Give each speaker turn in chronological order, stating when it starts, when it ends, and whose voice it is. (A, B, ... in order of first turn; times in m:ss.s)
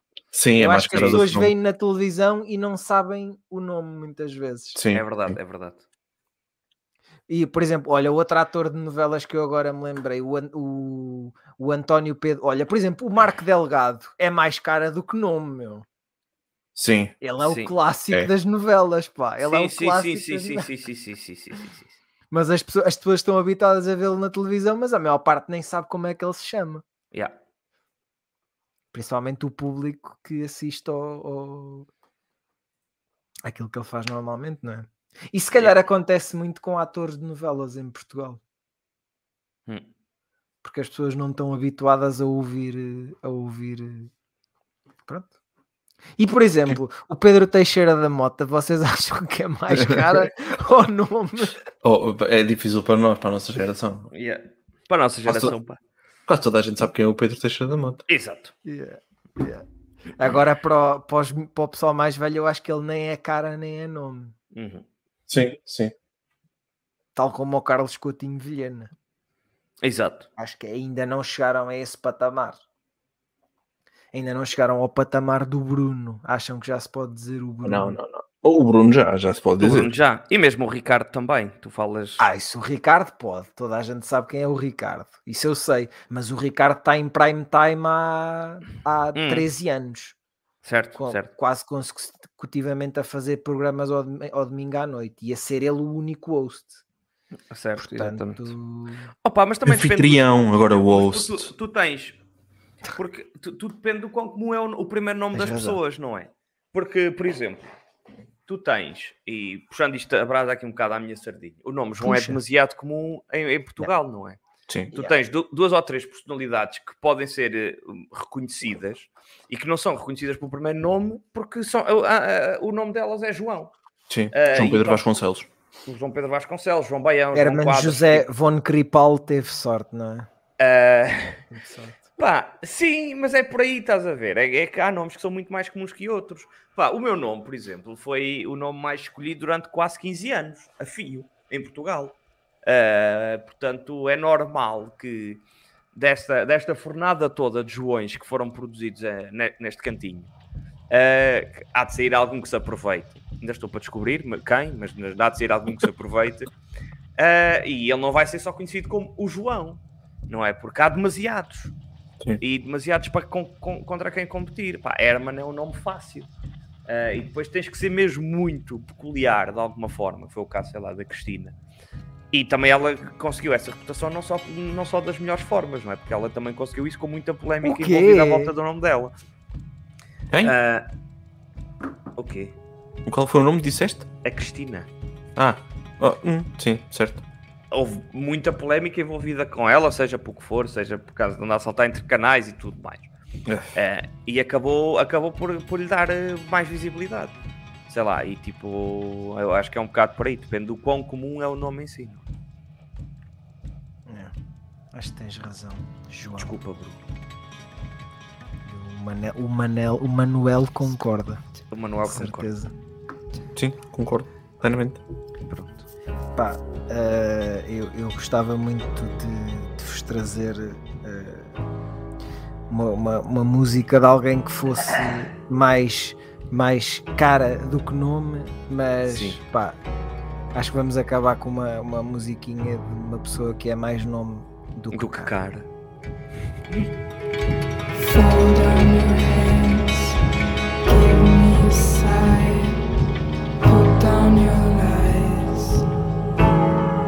0:00.3-0:01.5 A
0:00.6-0:04.8 B
0:00.9-0:01.2 C
0:04.8-0:05.4 A
0:04.9-0:05.8 C
0:07.3-0:15.8 B
0:16.8-0:17.1 A
0:17.2-0:20.7 B
0:17.4-0:17.7 C
0:19.4-0:22.0 C
0:22.3-0:26.8 B
0:28.9-0:31.9 B
0:33.4-0:38.4 B
0:40.6-0:44.1 B
0:46.2-0:51.6 B
0:49.7-0:50.2 A
0:51.8-0:54.1 A
0:54.1-0:55.8 C
0:55.3-0:55.5 A
0:56.3-0:58.0 A
0:58.1-0:58.5 C
0:58.6-0:59.6 B
1:00.2-1:04.4 B
1:04.5-1:04.8 C
1:05.3-1:05.9 A
1:07.2-1:08.9 B
1:09.8-1:10.3 C
1:10.4-1:12.6 B
1:14.1-1:18.0 B
1:17.6-1:19.9 A
1:19.6-1:22.2 C
1:22.2-1:30.2 B
1:29.2-1:29.5 C
1:30.6-1:31.3 C
1:31.0-1:36.8 B
1:37.5-1:38.6 C
1:37.8-1:39.1 B
1:39.2-1:42.2 C
1:39.6-1:41.5 A
1:42.9-1:47.7 C
1:45.3-1:45.8 B
1:48.5-1:54.4 C
1:52.0-1:52.4 B
1:54.9-2:03.7 C
2:04.1-2:05.5 A
2:04.3-2:05.1 C
2:05.9-2:08.3 C
2:07.3-2:10.3 B
2:10.6-2:11.5 C
2:11.5-2:12.0 B
2:12.2-2:25.4 C
2:25.9-2:30.3 C
2:30.9-2:36.5 C
2:37.2-2:41.7 C
2:42.4-2:46.3 C
2:46.9-2:51.5 C
2:52.3-2:59.2 C
2:57.6-2:58.6 B
3:00.4-3:00.9 C
3:02.2-3:02.6 C
3:03.0-3:04.1 A
3:04.2-3:04.9 C
3:05.4-3:07.2 A
3:07.7-3:13.1 C
3:13.5-3:13.7 A
3:13.7-3:17.4 C
3:17.9-3:22.2 C
3:24.1-3:24.3 B
3:24.9-3:26.5 B
3:26.4-3:27.0 C
3:28.6-3:31.4 B
3:31.7-3:32.5 C
3:32.0-3:32.7 B
3:33.6-3:35.0 A
3:35.5-3:35.9 C
3:36.4-3:41.6 B
3:42.7-3:49.8 B
3:49.1-3:49.4 C
3:50.5-3:55.3 B
3:54.9-3:55.7 C
3:58.0-4:00.2 D
4:00.8-4:02.8 D
4:03.6-4:05.8 D